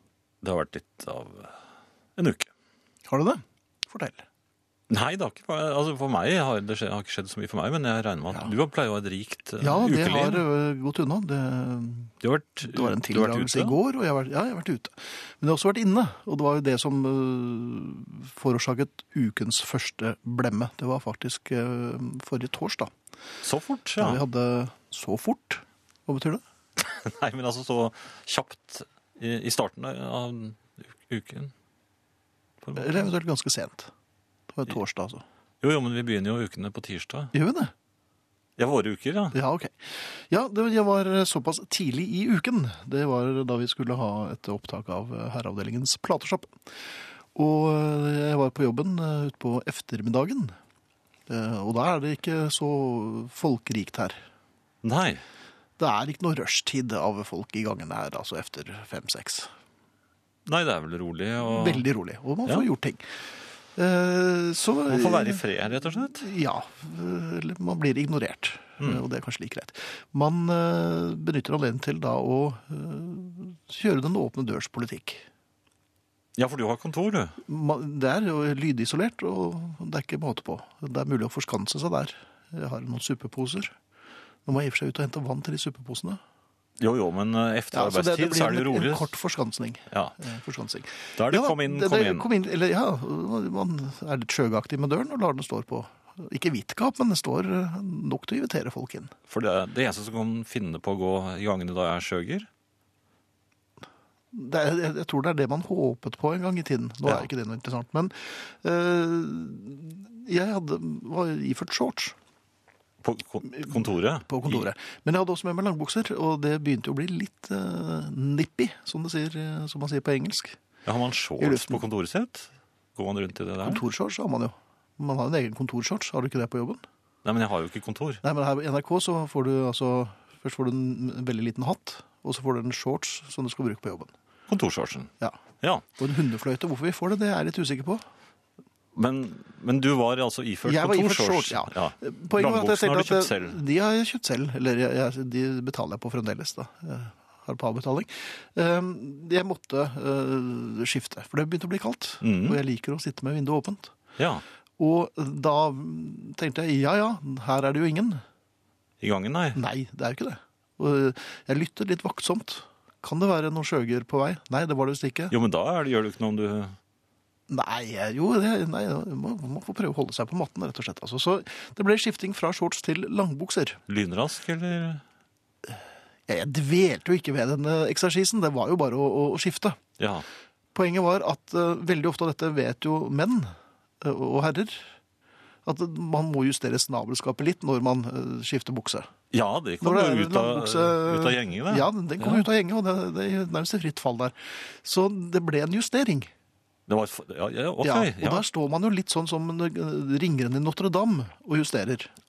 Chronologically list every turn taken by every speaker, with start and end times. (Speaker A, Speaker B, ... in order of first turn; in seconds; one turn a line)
Speaker A: 0.4-1.6
Speaker A: 2.1-2.5
Speaker B: 3.1-4.2
Speaker A: 4.9-10.4
Speaker B: 9.6-22.9
Speaker A: 12.2-13.8
Speaker A: 23.4-24.2
Speaker B: 24.0-26.4
Speaker A: 26.8-31.5
Speaker A: 32.6-33.1
Speaker B: 32.8-33.9
Speaker B: 34.5-35.2
Speaker A: 35.6-37.3
Speaker B: 37.3-37.7
Speaker A: 38.6-39.4
Speaker B: 39.3-46.5
Speaker B: 47.3-50.5
Speaker B: 51.3-54.2
Speaker A: 54.8-55.2
Speaker B: 55.8-59.5
Speaker A: 60.5-61.9
Speaker B: 61.4-63.0
Speaker B: 63.8-65.4
Speaker A: 64.9-66.3
Speaker B: 66.0-75.2
Speaker A: 76.3-77.4
Speaker B: 77.4-83.8
Speaker B: 84.5-86.2
Speaker A: 86.8-89.1
Speaker B: 87.7-99.1
Speaker A: 89.9-90.2
Speaker A: 91.2-92.3
Speaker A: 99.3-102.5
Speaker B: 104.3-112.1
Speaker A: 113.0-114.7
Speaker B: 113.5-120.6
Speaker A: 120.8-123.8
Speaker B: 121.4-121.8
Speaker B: 123.6-126.8
Speaker A: 127.2-128.2
Speaker B: 128.2-134.1
Speaker A: 134.5-135.8
Speaker B: 136.0-138.0
Speaker A: 138.9-143.6
Speaker B: 140.6-153.9
Speaker A: 152.2-152.6
Speaker A: 154.2-154.4
Speaker B: 154.8-158.2
Speaker A: 159.0-159.6
Speaker B: 159.5-165.3
Speaker A: 165.3-166.8
Speaker B: 167.5-173.8
Speaker A: 173.9-175.0
Speaker B: 175.7-179.8
Speaker A: 180.0-180.2
Speaker B: 180.7-184.9
Speaker B: 185.7-189.1
Speaker A: 189.3-192.4
Speaker B: 189.8-196.3
Speaker A: 196.9-198.4
Speaker B: 197.8-202.1